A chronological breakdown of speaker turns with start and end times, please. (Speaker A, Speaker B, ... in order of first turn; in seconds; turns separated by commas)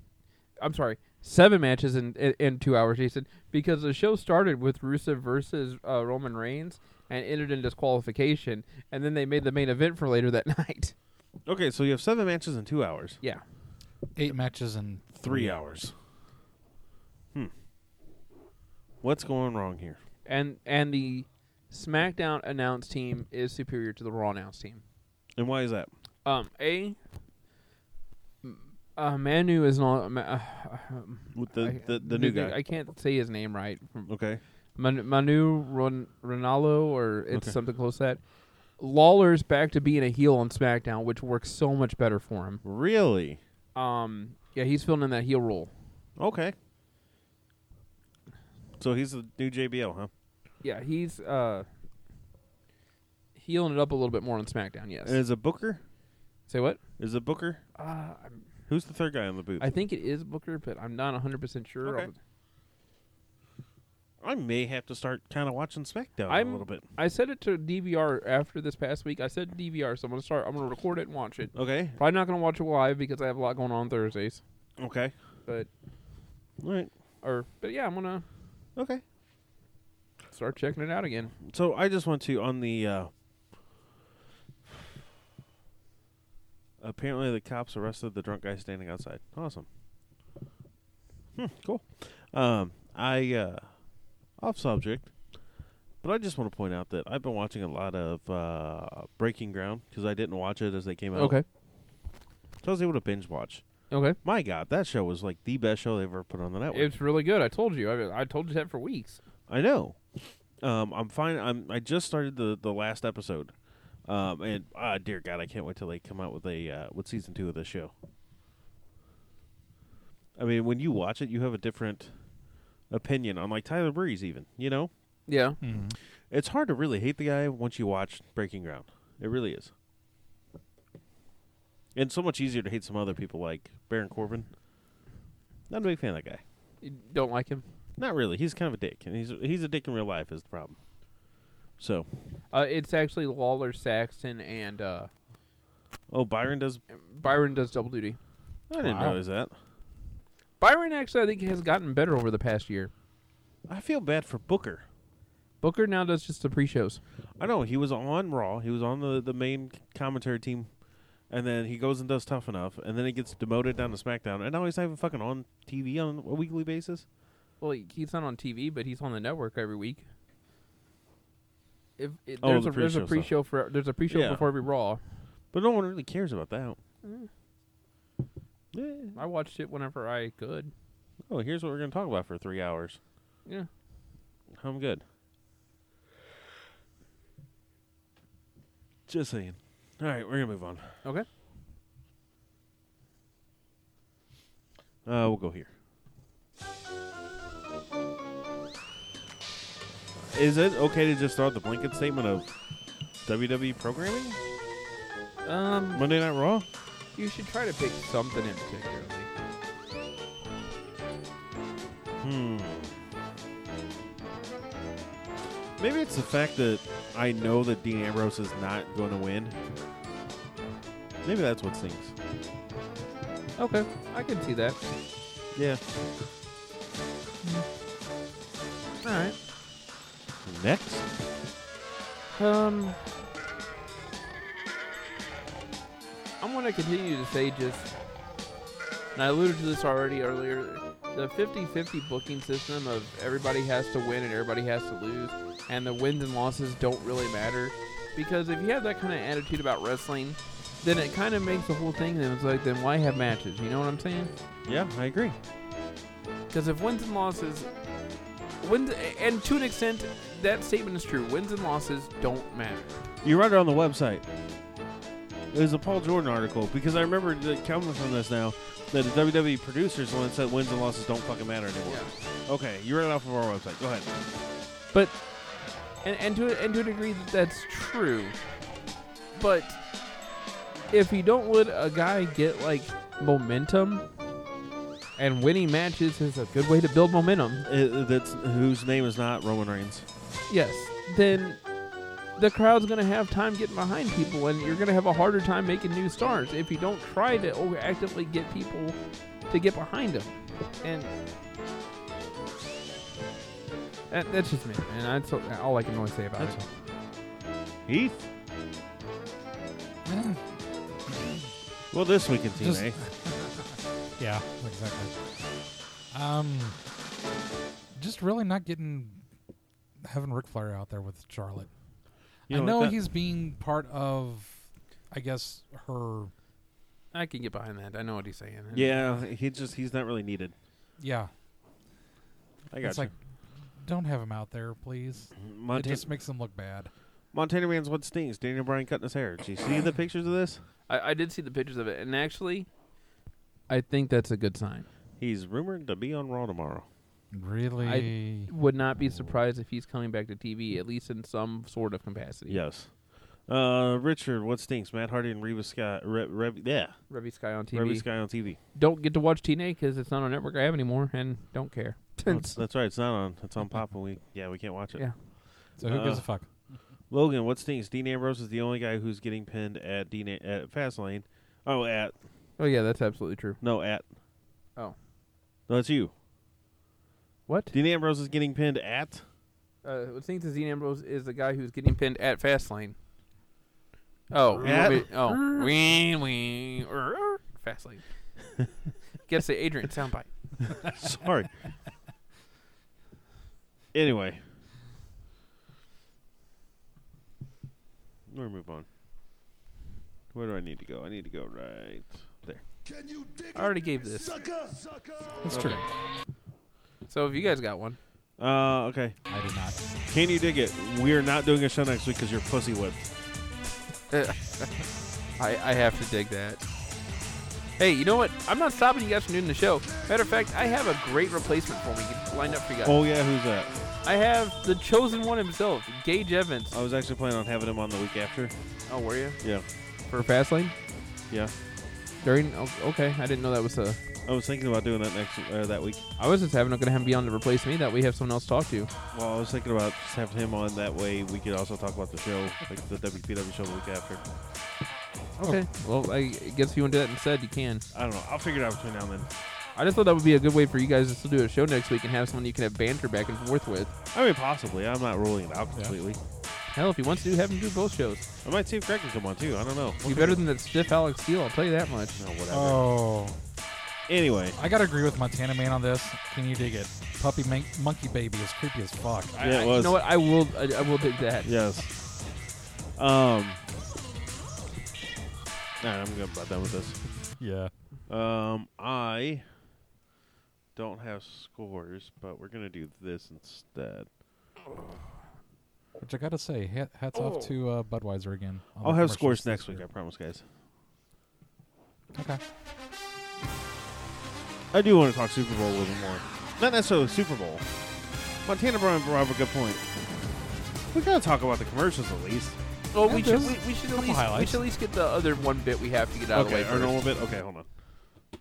Speaker A: 0.6-10.9, Speaker B: 11.4-13.2, Speaker C: 14.1-15.6, Speaker B: 15.2-15.9, Speaker B: 19.0-20.0, Speaker A: 20.2-24.8, Speaker B: 25.4-25.9, Speaker A: 26.2-27.0, Speaker A: 28.4-34.1, Speaker B: 31.3-32.6, Speaker B: 34.1-34.4, Speaker A: 34.7-38.2, Speaker A: 38.8-42.6, Speaker B: 42.6-43.4, Speaker A: 43.7-45.7, Speaker B: 46.2-46.5, Speaker B: 48.8-50.1, Speaker A: 50.6-51.7, Speaker A: 53.4-55.2, Speaker B: 55.0-55.8, Speaker A: 56.5-56.8, Speaker B: 57.0-57.6, Speaker A: 57.8-58.4, Speaker B: 58.7-59.8, Speaker A: 59.6-62.1, Speaker B: 61.8-62.1, Speaker B: 64.2-66.8, Speaker A: 66.3-74.4, Speaker B: 71.5-72.0, Speaker B: 74.8-75.1, Speaker B: 76.6-76.9, Speaker A: 77.2-78.2, Speaker B: 78.8-79.0, Speaker A: 80.3-81.3, Speaker B: 81.4-83.1, Speaker B: 86.8-89.7, Speaker B: 91.3-93.8, Speaker B: 94.3-95.1, Speaker B: 96.0-101.4, Speaker A: 101.1-101.4, Speaker B: 102.6-103.6, Speaker A: 103.9-104.2, Speaker B: 104.2-106.9, Speaker A: 106.7-109.2, Speaker B: 109.5-110.0, Speaker B: 110.6-113.5, Speaker B: 114.0-117.9, Speaker B: 120.3-122.2, Speaker B: 122.9-124.9, Speaker A: 125.3-125.6, Speaker C: 125.6-126.0, Speaker B: 126.3-129.7, Speaker B: 131.9-134.5, Speaker B: 135.7-136.4, Speaker A: 136.8-137.6, Speaker B: 138.0-140.8, Speaker B: 141.8-142.1, Speaker A: 142.5-145.1, Speaker B: 146.1-146.8, Speaker A: 146.9-148.2, Speaker B: 148.7-149.5, Speaker C: 148.8-149.2, Speaker A: 150.6-152.9, Speaker B: 153.7-154.8, Speaker A: 155.6-157.0, Speaker B: 157.4-160.7, Speaker B: 161.3-167.1, Speaker A: 167.6-170.1, Speaker A: 172.0-175.0, Speaker B: 172.4-173.3, Speaker B: 174.1-174.5, Speaker B: 175.5-176.8, Speaker A: 177.0-177.3, Speaker B: 178.7-179.2, Speaker A: 179.1-180.7, Speaker B: 181.3-183.0, Speaker B: 184.5-185.0, Speaker B: 189.1-190.9, Speaker B: 195.0-195.7, Speaker B: 200.2-202.5, Speaker B: 203.2-204.4, Speaker A: 205.4-206.0, Speaker B: 205.9-206.7, Speaker A: 207.2-209.3, Speaker B: 212.2-213.0, Speaker B: 215.8-219.6, Speaker B: 221.2-222.1, Speaker A: 223.6-224.8, Speaker B: 225.5-225.8, Speaker A: 229.0-229.3, Speaker B: 230.4-231.1, Speaker A: 232.3-233.0, Speaker A: 236.4-237.9, Speaker A: 239.1-254.3, Speaker B: 254.7-255.4, Speaker A: 256.5-257.7, Speaker A: 258.6-262.9, Speaker B: 263.2-264.2, Speaker B: 265.5-274.1, Speaker A: 271.8-272.1, Speaker A: 274.9-275.2, Speaker A: 276.0-278.4, Speaker A: 279.3-279.8, Speaker A: 280.9-284.1, Speaker A: 285.1-287.6, Speaker B: 287.6-290.1, Speaker A: 290.5-291.6, Speaker A: 292.3-299.0, Speaker A: 299.5-301.1, Speaker A: 304.1-306.6, Speaker B: 307.9-308.2, Speaker C: 310.1-310.5, Speaker C: 311.1-311.5, Speaker B: 311.9-313.0, Speaker C: 312.6-313.6, Speaker C: 314.2-315.2, Speaker C: 316.1-316.8, Speaker C: 317.9-319.2, Speaker C: 320.0-321.7, Speaker C: 322.5-326.3, Speaker B: 322.5-323.0, Speaker A: 327.1-329.1, Speaker B: 328.7-330.5, Speaker C: 331.0-331.3, Speaker B: 332.7-333.1, Speaker C: 332.8-333.1, Speaker C: 333.8-336.9, Speaker B: 335.4-336.1, Speaker B: 337.3-340.6, Speaker A: 340.9-342.7, Speaker A: 343.7-344.9, Speaker B: 345.2-346.9, Speaker C: 347.3-348.5, Speaker A: 347.8-352.6, Speaker B: 352.5-357.0, Speaker A: 357.1-362.6, Speaker B: 357.7-358.6, Speaker B: 362.2-365.1, Speaker C: 365.8-366.5, Speaker B: 365.8-366.3, Speaker B: 367.1-372.1, Speaker A: 372.6-373.6, Speaker B: 373.6-374.1, Speaker B: 375.7-376.1, Speaker A: 377.5-377.7, Speaker B: 377.7-379.2, Speaker A: 379.8-382.9, Speaker A: 384.3-388.0, Speaker B: 384.5-385.5, Speaker A: 389.2-390.6, Speaker B: 390.8-391.5, Speaker B: 393.9-394.4, Speaker B: 398.3-398.9, Speaker B: 400.3-402.6, Speaker A: 403.5-404.5, Speaker C: 405.4-405.8, Speaker B: 405.5-405.8, Speaker A: 405.5-405.8, Speaker A: 407.1-408.0, Speaker B: 408.4-409.2, Speaker C: 409.3-409.8, Speaker B: 410.1-413.1, Speaker A: 414.1-414.7, Speaker A: 415.4-416.6, Speaker A: 417.8-423.0, Speaker B: 422.8-423.7, Speaker A: 424.0-426.8, Speaker B: 426.7-428.5, Speaker A: 428.9-429.4, Speaker B: 429.4-429.6, Speaker A: 430.1-430.7, Speaker A: 432.2-434.0, Speaker B: 434.2-436.0, Speaker A: 436.2-438.9, Speaker B: 439.1-444.2, Speaker A: 445.4-447.8, Speaker B: 447.9-449.3, Speaker A: 449.8-453.9, Speaker B: 454.1-456.2, Speaker A: 456.7-458.3, Speaker B: 458.4-460.4, Speaker A: 460.0-462.2, Speaker B: 462.1-462.9, Speaker C: 462.5-463.4, Speaker B: 464.1-464.6, Speaker C: 464.6-469.3, Speaker A: 469.3-471.5, Speaker B: 469.4-470.0, Speaker B: 471.4-471.9, Speaker B: 472.9-473.6, Speaker B: 475.8-477.0, Speaker C: 477.4-477.7, Speaker B: 478.1-479.4, Speaker B: 480.8-484.1, Speaker C: 486.0-489.8, Speaker B: 488.8-490.4, Speaker C: 492.1-492.4, Speaker B: 494.7-497.6, Speaker B: 498.4-499.8, Speaker B: 500.9-502.6, Speaker A: 502.9-507.0, Speaker C: 503.0-504.7, Speaker B: 506.3-507.6